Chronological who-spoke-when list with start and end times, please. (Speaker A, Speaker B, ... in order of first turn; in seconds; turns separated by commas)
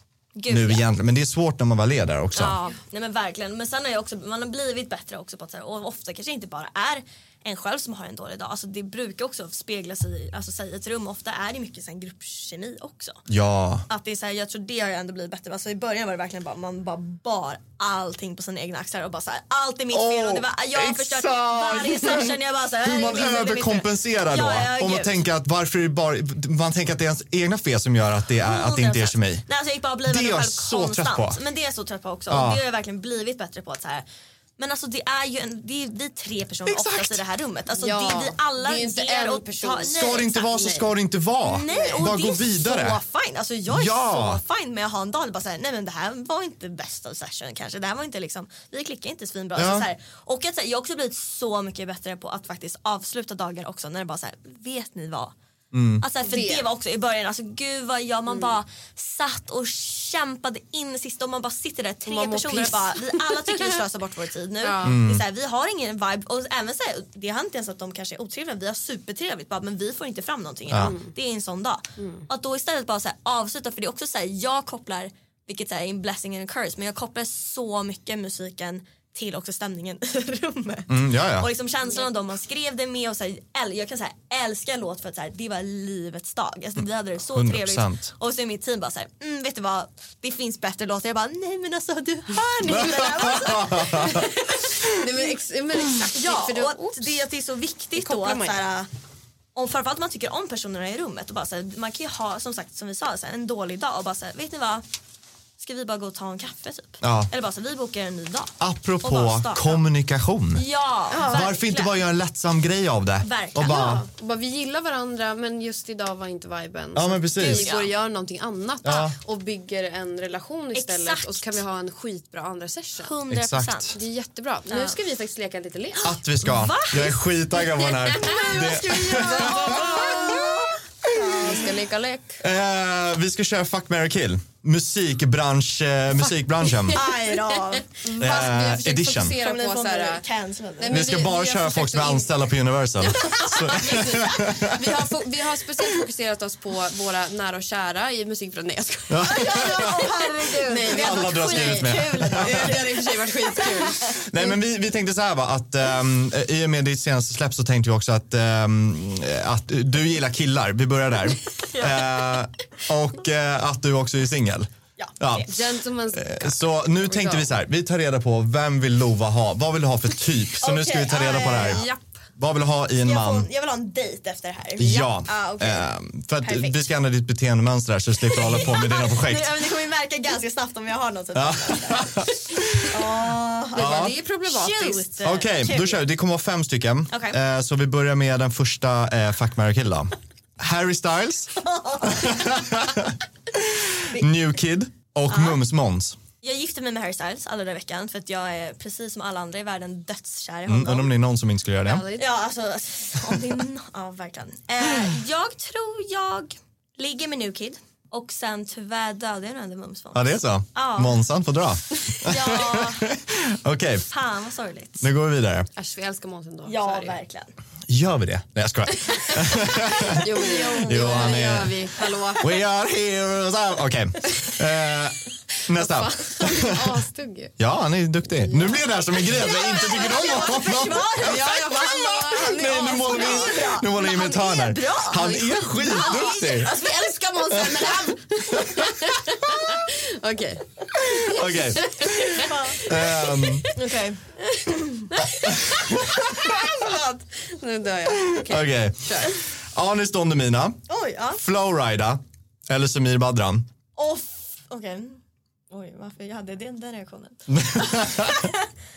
Speaker A: 0.3-0.8, Speaker B: 0.5-2.6, Speaker A: 2.3-13.2, Speaker B: 13.3-13.8, Speaker A: 13.9-25.2, Speaker B: 19.9-29.4, Speaker A: 28.4-34.0, Speaker B: 30.1-31.4, Speaker B: 32.3-32.6, Speaker A: 34.6-40.5, Speaker B: 36.7-37.2, Speaker C: 37.7-40.9, Speaker B: 39.9-43.0, Speaker A: 41.4-55.3, Speaker B: 43.7-44.4, Speaker B: 49.5-49.9, Speaker B: 55.7-56.0, Speaker A: 56.0-94.9, Speaker C: 56.2-56.6, Speaker C: 62.0-63.8, Speaker C: 64.6-65.0, Speaker B: 64.8-65.2, Speaker C: 70.8-71.1, Speaker C: 72.0-72.2, Speaker B: 80.9-81.5, Speaker B: 87.3-88.1, Speaker B: 92.6-94.3, Speaker C: 93.0-97.1, Speaker A: 96.1-98.9, Speaker C: 98.0-98.6, Speaker A: 99.5-104.8, Speaker A: 105.6-109.8, Speaker B: 107.0-107.3, Speaker B: 108.6-110.6, Speaker A: 110.5-111.9, Speaker C: 111.1-111.4, Speaker B: 111.2-114.0, Speaker A: 113.2-114.1, Speaker C: 113.8-123.1, Speaker B: 116.9-117.7, Speaker A: 117.5-117.9, Speaker B: 118.8-119.2, Speaker A: 120.7-121.6, Speaker A: 123.0-124.0, Speaker B: 123.3-123.9, Speaker C: 123.9-126.2, Speaker A: 124.7-125.0, Speaker A: 126.0-131.7, Speaker B: 126.0-131.7, Speaker C: 128.2-132.4, Speaker B: 132.4-137.1, Speaker C: 136.7-140.2, Speaker A: 136.9-138.4, Speaker B: 138.2-139.4, Speaker A: 139.4-141.0, Speaker C: 140.8-142.4, Speaker B: 140.9-145.0, Speaker C: 143.0-150.1, Speaker A: 143.2-144.4, Speaker B: 149.1-150.0, Speaker A: 149.2-154.2, Speaker C: 150.6-154.5, Speaker B: 150.9-152.8, Speaker B: 154.2-165.5, Speaker A: 161.7-162.2, Speaker A: 165.0-165.5, Speaker C: 165.5-167.5, Speaker B: 166.1-173.5, Speaker A: 170.6-171.8, Speaker C: 171.3-172.1, Speaker A: 173.0-175.9, Speaker B: 174.8-179.5, Speaker C: 174.8-175.1, Speaker A: 176.4-176.8, Speaker A: 178.3-186.0, Speaker B: 181.3-183.0, Speaker C: 183.7-185.1, Speaker B: 183.8-184.1, Speaker B: 185.2-196.2, Speaker A: 187.1-187.4, Speaker A: 191.6-192.5, Speaker A: 195.3-195.6, Speaker A: 196.4-201.1, Speaker B: 200.7-202.1, Speaker C: 201.8-202.3, Speaker A: 202.2-211.2, Speaker B: 210.1-214.1, Speaker A: 212.2-213.1, Speaker A: 214.1-215.0, Speaker B: 215.0-215.7, Speaker C: 215.8-217.2, Speaker A: 216.7-217.5, Speaker B: 217.9-221.8, Speaker C: 219.0-222.5, Speaker A: 220.3-222.6, Speaker B: 222.4-227.0, Speaker C: 225.6-227.6, Speaker B: 227.6-231.2, Speaker C: 228.4-228.9, Speaker A: 229.3-236.9, Speaker C: 231.2-233.8, Speaker B: 232.4-236.7, Speaker C: 235.1-243.8, Speaker B: 237.5-237.9, Speaker B: 238.5-239.0, Speaker B: 241.0-243.7, Speaker A: 242.1-243.0, Speaker A: 243.7-245.1, Speaker C: 244.5-249.4, Speaker B: 245.4-246.2, Speaker A: 246.2-246.9, Speaker B: 248.3-250.8, Speaker A: 250.9-251.4, Speaker B: 251.4-253.7, Speaker A: 254.0-258.7, Speaker B: 257.5-258.4